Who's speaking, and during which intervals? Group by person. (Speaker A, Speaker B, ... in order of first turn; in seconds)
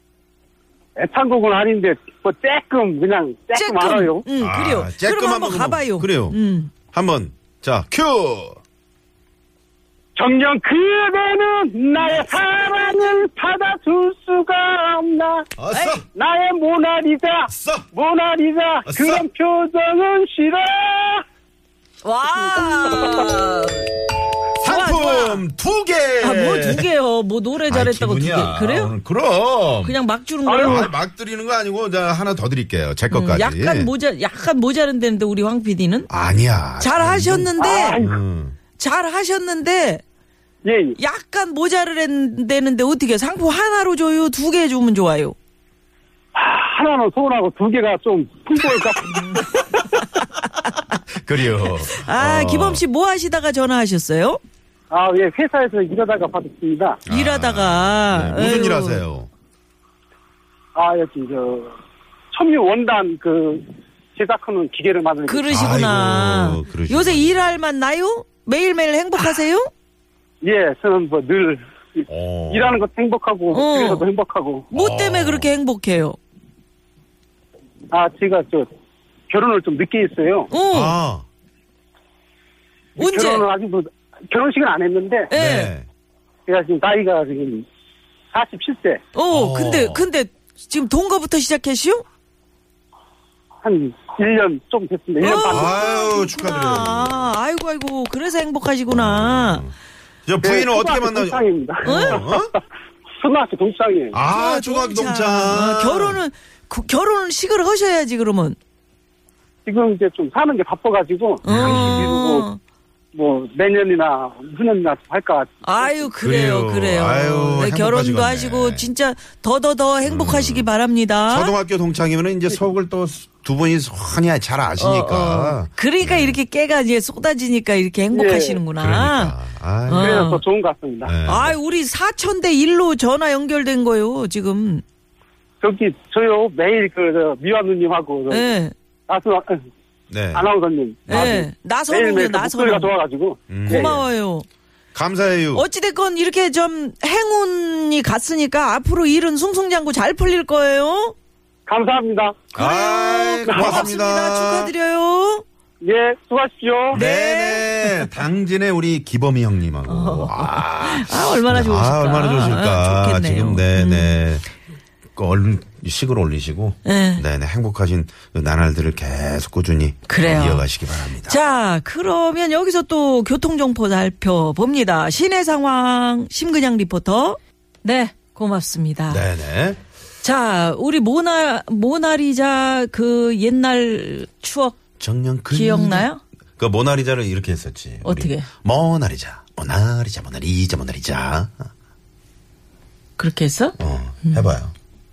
Speaker A: 1.0-4.2, 10.2-15.5, 16.1-21.2, 22.7-23.3, 30.4-30.9, 37.6-38.2, 40.6-41.0, 46.3-49.6, 54.9-57.0, 60.7-61.7, 62.3-65.5, 70.4-74.7, 77.9-78.7, 79.3-80.5, 83.0-85.3, 86.5-87.7, 88.3-89.0, 93.6-95.9, 100.4-102.5, 103.2-104.2, 109.6-112.5, 113.1-116.0, 128.1-128.6, 129.9-131.1, 135.6-138.5, 139.1-139.6, 140.3-143.9, 151.7-152.5, 153.5-153.8, 155.8-157.0
Speaker B: 3.5-6.7, 15.7-16.0, 22.0-23.9, 24.6-25.4, 26.2-28.9, 29.8-30.9, 33.1-36.1, 36.8-38.0, 38.8-40.0, 41.0-45.4, 49.1-49.6, 50.2-50.8, 51.6-54.4, 57.1-59.0, 65.2-69.7, 73.5-74.0, 74.7-76.2, 80.5-81.0, 83.0-83.5, 85.3-85.7, 89.1-92.0, 95.2-99.6, 101.8-102.2, 104.2-108.6, 111.4-112.6, 115.6-121.5, 124.8-129.3, 129.9-130.4, 131.2-134.8, 138.3-138.7, 141.1-142.9, 143.6-144.4, 145.5-151.1, 152.5-155.4, 156.9-158.1, 159.9-164.2, 166.8-167.2, 170.1-170.7, 171.2-179.2, 180.2-184.8, 185.5-186.2, 188.0-188.5, 193.2-193.8
Speaker C: 4.4-6.4, 6.9-8.6, 15.6-16.0, 17.5-17.9, 18.9-19.2, 24.6-26.9, 27.6-30.0, 30.6-33.9, 36.1-38.5, 51.1-52.8, 57.0-59.3, 65.5-67.4, 72.1-72.8, 74.7-75.5, 80.7-81.2, 85.3-85.9, 89.3-90.1, 95.3-97.3, 98.9-99.7, 100.2-102.5, 104.1-106.2, 111.5-112.2, 116.2-118.9, 120.0-120.7, 121.3-126.4, 128.8-130.2, 131.0-131.6, 140.1-140.5, 141.1-141.4, 143.5-144.0, 144.9-145.6, 152.5-154.7, 156.9-164.4, 165.1-171.4, 179.1-179.8, 185.0-191.7, 193.8-194.7